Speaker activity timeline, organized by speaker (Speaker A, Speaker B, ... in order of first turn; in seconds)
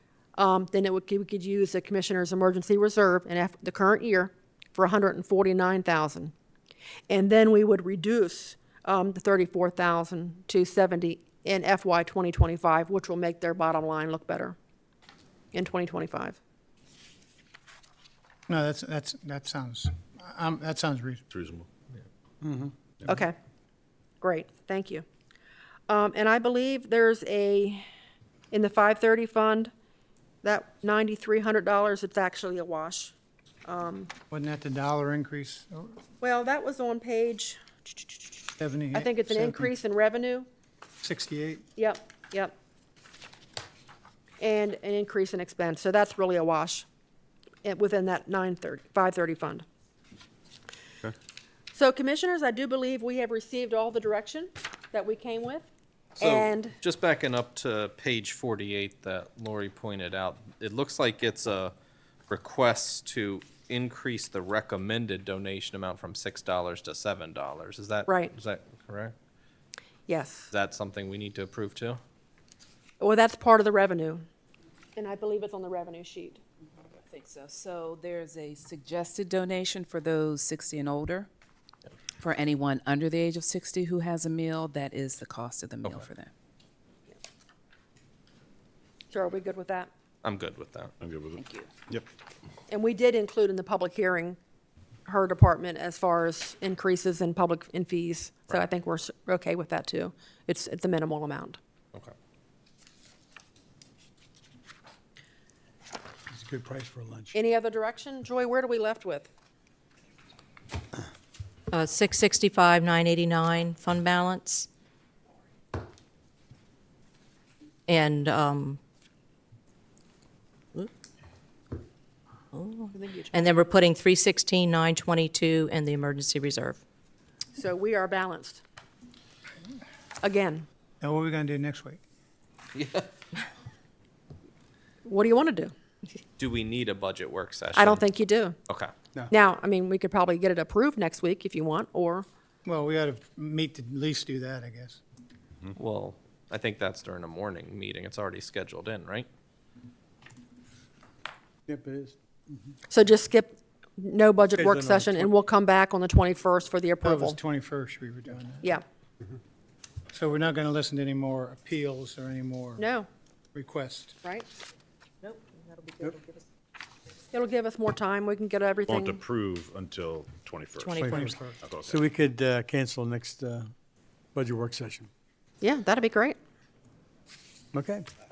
Speaker A: 0.4-6.3, 7.1-14.6, 15.5-16.4, 23.1-23.4, 24.2-25.1, 25.9-27.9, 28.5-29.7, 30.4-33.1, 33.7-34.1, 36.2-37.6, 38.9-40.5, 41.8-42.5, 44.4-46.9, 47.6-49.6, 51.7-55.6, 56.2-56.8, 68.1-68.3, 70.1-70.5, 73.0-74.3, 75.0-76.4, 89.1-89.9, 92.7-94.4, 95.1-101.6, 107.3-109.3, 123.0-123.4, 127.5-128.6, 130.2-130.7, 135.1-135.7, 137.8-138.6, 139.3-142.3, 152.9-157.4, 162.8-163.1, 167.3-169.2, 175.6-176.4
Speaker B: 18.5-21.2, 34.3-36.0, 38.6-39.7, 41.0-41.7, 131.0-132.0, 142.7-145.0, 157.0-158.8, 160.1-162.9, 163.5-164.2, 171.0-171.6
Speaker C: 21.3-21.7, 91.0-92.1, 168.9-171.1, 171.6-172.0
Speaker D: 56.2-61.7, 62.3-69.1, 70.5-72.0, 90.2-90.9, 132.8-133.1, 136.4-138.1, 145.8-149.3
Speaker E: 77.0-81.3, 82.2-86.3, 91.4-91.7
Speaker F: 106.3-107.3, 151.7-152.7, 154.6-155.3, 171.9-173.7, 174.3-175.1, 177.7-178.1
Speaker G: 106.9-107.3, 111.7-114.7, 117.9-118.8, 122.5-126.8, 151.7-152.1, 170.8-171.4